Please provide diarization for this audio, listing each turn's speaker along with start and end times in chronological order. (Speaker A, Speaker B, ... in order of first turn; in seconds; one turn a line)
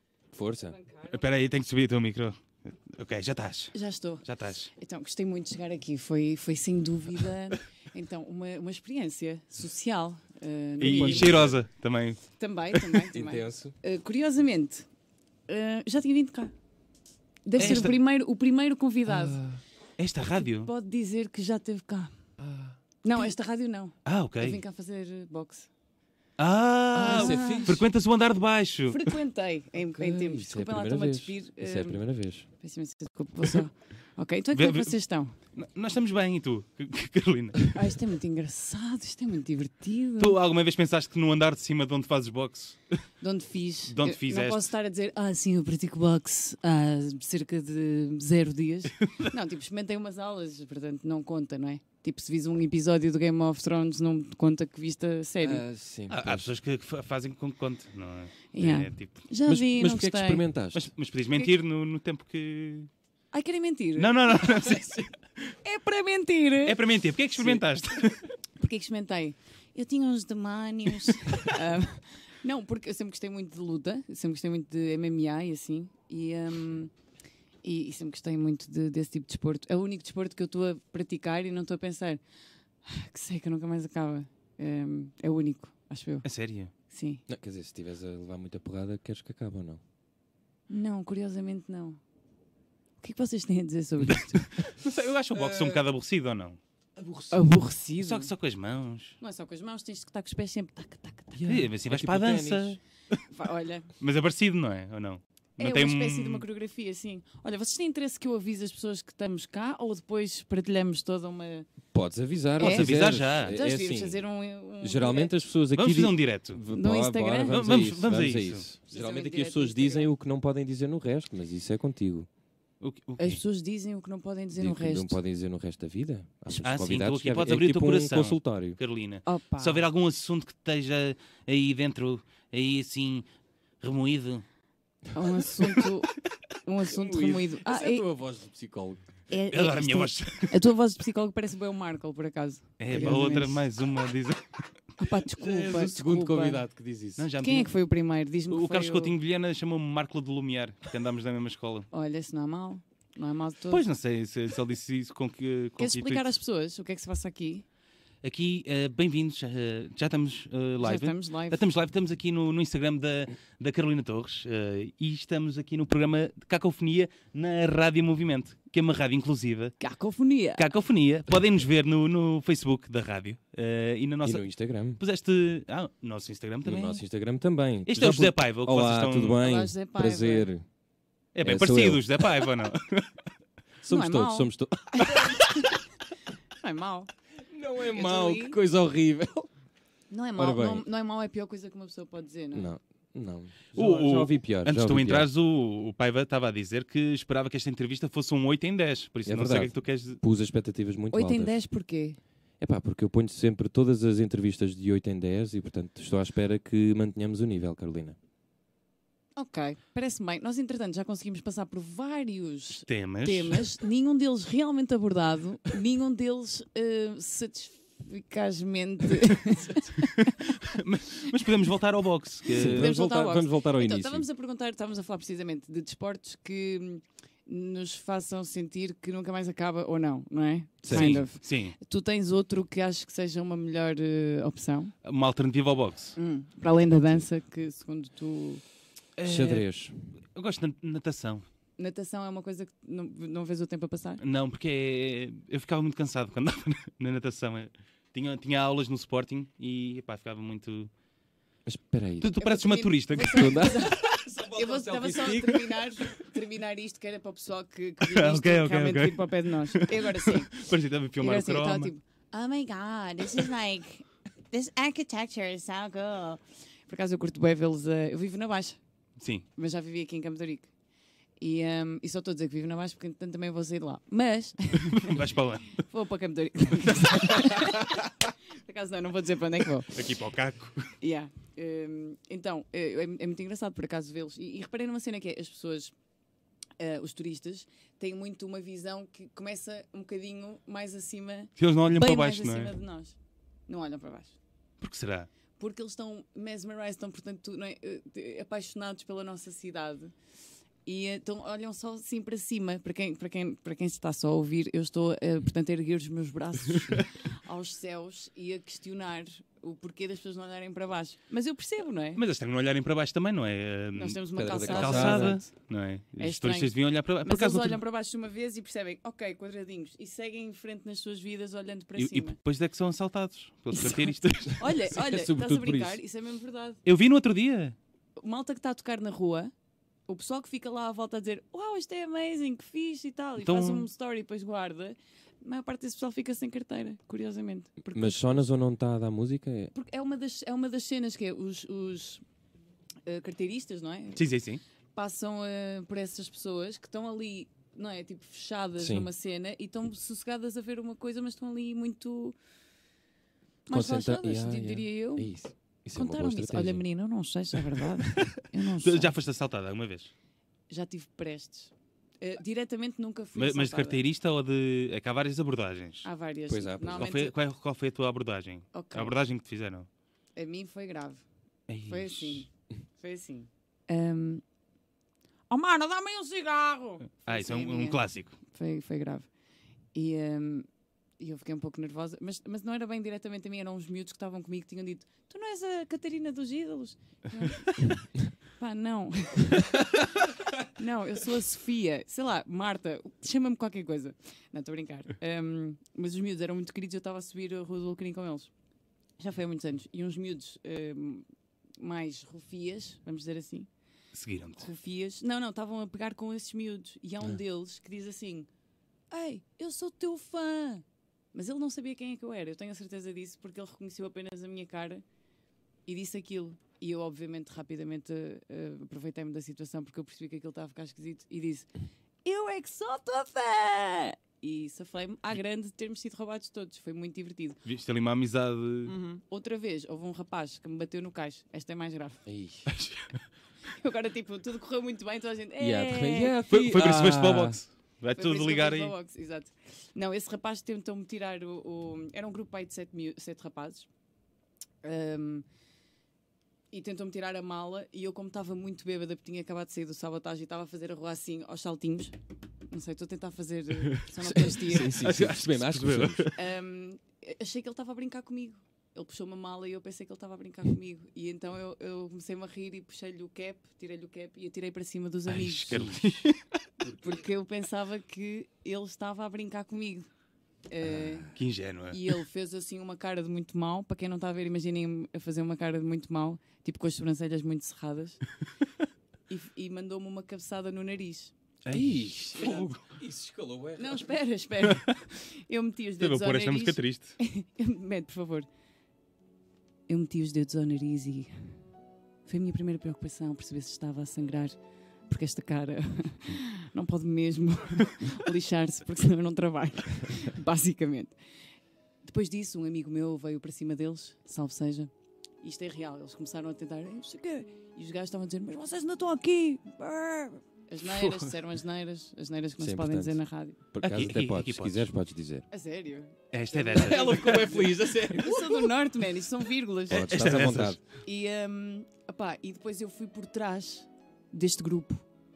Speaker A: 0.3-0.8
Speaker B: 0.6-1.3
Speaker C: 1.1-4.7
Speaker B: 3.7-11.4
Speaker A: 10.8-11.6
Speaker C: 10.8-12.2
Speaker B: 12.4-14.9
Speaker A: 13.1-13.7
Speaker B: 15.5-16.5
Speaker B: 17.4-19.4
Speaker C: 17.6-18.0
Speaker A: 19.1-19.6
Speaker C: 20.0-20.7
Speaker B: 20.4-22.1
Speaker A: 22.4-22.8
Speaker B: 23.0-25.7
Speaker C: 24.0-24.6
Speaker C: 26.4-29.1
Speaker A: 26.9-27.8
Speaker B: 27.0-27.8
Speaker B: 28.9-32.0
Speaker A: 29.8-32.5
Speaker B: 32.6-35.4
Speaker C: 34.5-37.9
Speaker B: 37.7-40.4
Speaker C: 40.2-42.8
Speaker B: 43.2-55.6
Speaker C: 43.9-44.7
Speaker A: 55.4-56.5
Speaker C: 56.1-59.3
Speaker B: 58.5-60.5
Speaker A: 59.5-60.9
Speaker C: 60.7-62.9
Speaker B: 63.3-64.7
Speaker C: 64.0-64.9
Speaker A: 64.5-65.1
Speaker B: 65.6-66.8
Speaker C: 66.6-68.2
Speaker A: 67.4-67.6
Speaker B: 68.6-76.9
Speaker B: 77.6-82.2
Speaker B: 82.8-86.3
Speaker C: 86.2-86.7
Speaker B: 86.9-87.2
Speaker A: 87.3-89.8
Speaker B: 90.7-92.0
Speaker B: 93.0-94.5
Speaker C: 94.1-96.6
Speaker A: 95.3-95.8
Speaker A: 97.0-97.3
Speaker B: 97.3-98.3
Speaker C: 98.0-99.2
Speaker B: 99.2-101.5
Speaker A: 101.3-102.8
Speaker C: 101.5-103.2
Speaker B: 103.3-103.9
Speaker C: 104.0-106.4
Speaker B: 105.6-111.7
Speaker A: 111.9-114.2
Speaker B: 112.6-115.3
Speaker C: 112.6-113.6
Speaker A: 114.8-122.3
Speaker C: 115.7-116.6
Speaker B: 116.7-117.6
Speaker C: 117.5-118.6
Speaker B: 118.9-120.1
Speaker C: 122.8-123.4
Speaker B: 123.2-125.2
Speaker A: 124.5-128.8
Speaker C: 126.5-133.2
Speaker B: 129.2-129.8
Speaker C: 133.8-134.4
Speaker B: 135.1-136.1
Speaker B: 136.6-138.0
Speaker A: 136.8-139.1
Speaker B: 139.3-143.6
Speaker C: 139.5-140.5
Speaker C: 142.8-144.4
Speaker A: 142.9-143.3
Speaker B: 145.0-146.6
Speaker A: 145.4-147.3
Speaker C: 147.2-147.7
Speaker B: 147.4-149.2
Speaker C: 148.5-151.9
Speaker B: 151.9-153.8
Speaker C: 153.7-156.2
Speaker B: 155.8-157.6
Speaker C: 158.2-169.8
Speaker B: 160.8-161.6
Speaker B: 169.8-170.7
Speaker C: 170.6-177.0
Speaker A: 174.2-175.0
Speaker A: 176.6-180.6
Speaker C: 177.9-179.4
Speaker B: 179.4-180.5
Speaker C: 181.3-183.1
Speaker A: 181.4-182.2
Speaker A: 183.8-185.5
Speaker B: 183.9-185.8
Speaker B: 186.6-187.1
Speaker A: 187.5-189.5
Speaker B: 187.9-188.6
Speaker B: 190.1-192.7
Speaker A: 190.4-190.8
Speaker A: 192.5-195.3
Speaker C: 193.7-200.2
Speaker A: 199.2-201.6
Speaker B: 201.1-202.2
Speaker A: 202.6-208.2
Speaker B: 209.3-220.5
Speaker C: 212.9-213.7
Speaker C: 220.0-222.9
Speaker A: 222.5-224.2
Speaker B: 222.6-234.9
Speaker A: 230.8-231.2
Speaker C: 230.9-231.8
Speaker C: 235.0-236.2
Speaker B: 236.2-238.6
Speaker A: 236.7-237.2
Speaker C: 239.2-239.7
Speaker A: 239.2-240.1
Speaker C: 240.3-241.4
Speaker B: 241.8-244.2
Speaker C: 244.2-250.9
Speaker A: 251.7-252.3
Speaker C: 252.2-253.6
Speaker B: 252.4-260.6
Speaker A: 253.2-255.8
Speaker C: 258.1-261.9
Speaker B: 261.2-268.8
Speaker C: 269.2-269.4
Speaker B: 269.6-270.7
Speaker B: 271.4-280.1
Speaker C: 274.9-275.8
Speaker C: 276.8-277.8
Speaker C: 279.9-280.9
Speaker B: 281.0-285.9
Speaker B: 286.8-293.2
Speaker C: 291.6-292.7
Speaker B: 293.7-294.4
Speaker C: 294.8-295.3
Speaker B: 295.6-300.1
Speaker B: 300.9-312.2
Speaker C: 312.1-317.8
Speaker B: 313.9-315.5
Speaker A: 314.4-315.4
Speaker B: 316.2-322.4
Speaker C: 321.9-324.7
Speaker B: 323.8-326.8
Speaker A: 324.9-326.0
Speaker C: 326.8-327.8
Speaker B: 328.2-329.5
Speaker B: 330.1-338.2
Speaker C: 333.4-333.9
Speaker A: 337.9-339.7
Speaker B: 339.7-342.2
Speaker B: 343.1-344.2
Speaker C: 344.1-344.6
Speaker B: 344.9-352.3
Speaker A: 348.8-349.1
Speaker B: 353.7-355.3
Speaker A: 353.7-356.8
Speaker B: 355.9-359.1
Speaker C: 358.8-360.1
Speaker B: 360.7-364.0
Speaker C: 363.3-366.1
Speaker B: 366.0-367.3
Speaker A: 366.5-367.1
Speaker C: 366.9-369.9
Speaker B: 368.7-369.2
Speaker B: 370.4-371.2
Speaker C: 371.7-372.4
Speaker B: 371.9-374.4
Speaker B: 375.5-379.3
Speaker C: 377.2-378.4
Speaker B: 379.9-380.7
Speaker B: 381.2-390.0
Speaker B: 390.6-398.5
Speaker B: 399.2-401.2
Speaker B: 401.8-403.7
Speaker C: 404.1-404.7
Speaker B: 404.6-408.5
Speaker B: 409.1-415.0
Speaker B: 415.9-421.7
Speaker B: 422.2-427.6
Speaker C: 427.6-428.9
Speaker B: 428.9-432.2
Speaker A: 432.2-432.7
Speaker C: 432.7-433.2
Speaker B: 433.8-436.4
Speaker A: 435.6-437.6
Speaker C: 436.5-438.9
Speaker B: 438.1-443.9
Speaker B: 444.8-445.4
Speaker B: 446.7-452.1
Speaker B: 452.7-454.9
Speaker A: 454.2-456.3
Speaker C: 454.7-456.3
Speaker B: 456.3-466.0
Speaker C: 465.3-466.4
Speaker A: 465.7-466.0
Speaker A: 466.8-467.2
Speaker B: 467.0-470.1
Speaker B: 470.7-471.3
Speaker A: 470.8-471.3
Speaker C: 471.3-472.1
Speaker B: 471.9-478.2
Speaker B: 479.3-481.3
Speaker C: 481.6-482.8
Speaker A: 481.7-484.1
Speaker B: 483.8-488.5
Speaker C: 484.6-485.0
Speaker C: 486.0-487.2
Speaker B: 489.9-491.5
Speaker B: 492.2-494.6
Speaker B: 495.1-501.1
Speaker B: 502.0-504.9
Speaker B: 505.4-513.6
Speaker C: 510.9-511.3
Speaker A: 512.6-513.2
Speaker A: 513.7-515.4
Speaker C: 513.8-514.9
Speaker B: 515.5-525.0
Speaker C: 516.3-517.5
Speaker A: 516.7-518.6
Speaker A: 519.9-520.8
Speaker C: 520.0-520.8